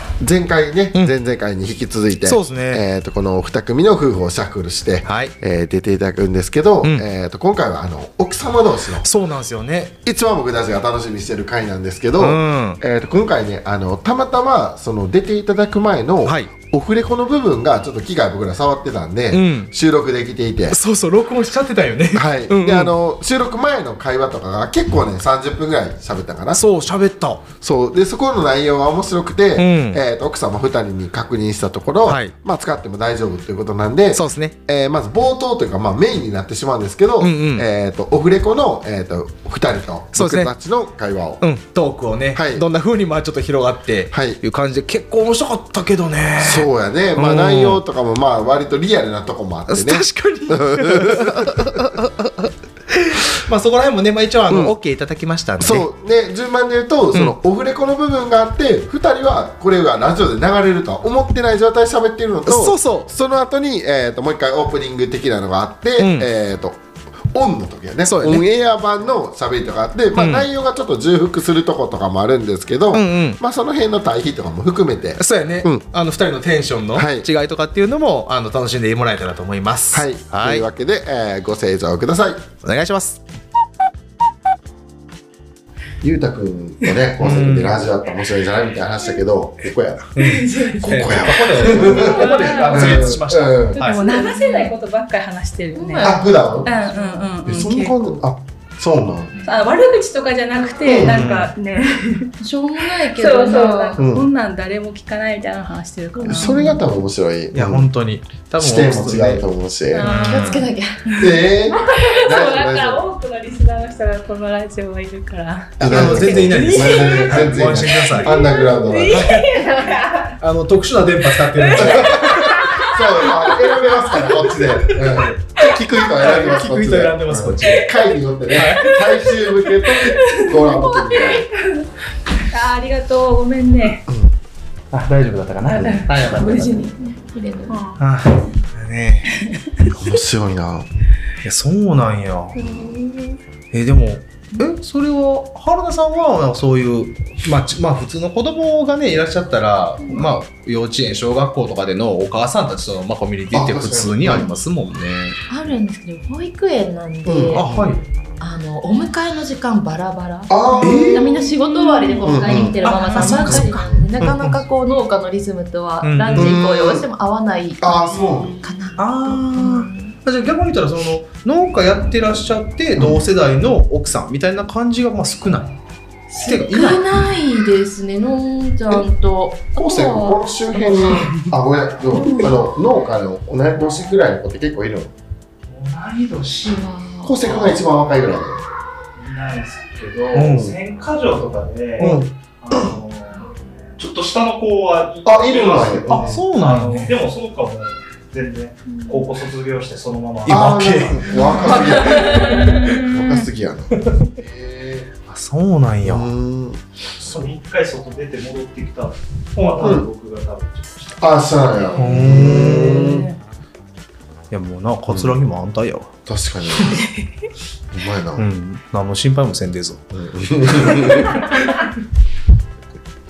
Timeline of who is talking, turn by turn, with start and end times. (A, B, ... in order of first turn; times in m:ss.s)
0:00.2-0:09.1 A
0:02.2-0:02.8 B
0:05.0-0:05.3 B
0:09.0-0:10.0 B
0:10.0-0:20.8 A
0:12.2-0:12.8 B
0:16.2-0:16.5 B
0:19.3-0:19.7 B
0:20.7-0:22.9 B
0:22.1-0:26.6 A
0:26.5-0:27.5 B
0:27.6-0:41.4 A
0:29.6-0:30.0 B
0:32.0-0:32.3 B
0:34.1-0:34.6 B
0:37.2-0:37.7 B
0:40.1-0:40.5 B
0:41.4-0:47.8 B
0:42.3-0:42.6 A
0:44.1-0:44.4 A
0:46.4-0:51.9 A
0:49.7-0:55.8 B
0:54.5-0:54.8 A
0:55.6-1:06.8 A
1:02.5-1:03.1 B
1:06.0-1:06.3 B
1:07.3-1:15.8 A
1:08.0-1:08.4 B
1:10.2-1:10.5 B
1:12.9-1:13.4 B
1:15.2-1:20.7 B
1:16.9-1:17.3 A
1:19.9-1:22.5 A
1:22.6-1:23.2 B
1:26.0-1:30.2 A
1:27.2-1:27.8 B
1:30.2-1:34.0 B
1:30.2-1:30.9 C
1:30.5-1:30.8 D
1:30.8-1:33.8 A
1:31.8-1:33.1 D
1:32.4-1:32.7 C
1:33.8-1:36.1 D
1:33.8-1:34.7 C
1:35.8-1:37.3 C
1:36.0-1:36.7 A
1:36.6-1:38.0 D
1:37.4-1:39.3 A
1:39.4-1:42.3 D
1:40.8-1:41.3 A
1:41.0-1:41.5 B
1:42.4-1:44.0 C
1:43.0-1:46.6 D
1:44.0-1:44.3 A
1:46.2-1:46.8 C
1:46.3-1:47.9 A
1:47.5-1:49.4 B
1:48.6-1:50.4 A
1:50.0-1:50.4 D
1:50.0-1:51.1 C
1:50.0-1:50.6 B
1:51.1-1:51.3 D
1:51.2-1:53.0 A
1:51.8-2:00.3 D
1:55.8-1:59.4 A
1:55.8-1:58.4 B
1:59.1-1:59.5 B
1:59.5-2:00.0 C
2:00.4-2:02.8 B
2:01.4-2:04.6 D
2:01.8-2:11.5 A
2:06.2-2:07.9 B
2:08.5-2:08.9 B
2:08.8-2:14.0 D
2:14.1-2:14.3 A
2:14.9-2:16.9 B
2:15.7-2:17.2 D
2:15.8-2:16.0 A
2:17.0-2:17.9 C
2:17.7-2:18.0 D
2:18.0-2:19.4 B
2:19.9-2:20.9 A
2:21.4-2:22.6 B
2:22.6-2:22.9 A
2:22.6-2:23.4 C
2:23.7-2:35.4 B
2:33.5-2:34.5 A
2:35.5-2:37.7 C
2:37.3-2:37.9 A
2:37.6-2:38.0 B
2:38.4-2:50.2 C
2:40.5-2:41.5 A
2:40.8-2:41.2 B
2:41.6-2:43.7 D
2:42.2-2:44.4 A
2:42.9-2:44.6 B
2:46.0-2:46.6 B
2:46.4-2:47.0 A
2:47.8-2:48.6 A
2:48.2-2:48.6 D
2:49.0-2:55.8 B
2:53.0-2:53.2 A
2:56.3-3:01.2 C
2:56.4-2:57.1 B
2:59.8-3:05.1 A
3:02.2-3:02.5 C
3:05.7-3:08.0 E
3:06.7-3:07.4 C
3:07.2-3:08.6 A
3:09.2-3:21.0 E
3:10.3-3:10.7 B
3:10.5-3:10.8 A
3:12.0-3:12.3 A
3:15.2-3:16.4 A
3:16.1-3:17.2 B
3:20.5-3:23.1 B
3:20.5-3:25.1 A
3:21.7-3:23.1 D
3:25.3-3:26.3 B
3:26.0-3:27.5 A
3:27.2-3:31.2 E
3:29.8-3:30.1 A
3:31.2-3:33.3 A
3:32.0-3:33.2 B
3:32.6-3:33.3 D
3:34.5-3:36.1 B
3:35.1-3:35.4 A
3:36.3-3:37.0 A
3:36.9-3:37.2 D
3:37.9-3:38.4 A
3:38.4-3:40.0 B
3:40.1-3:41.6 A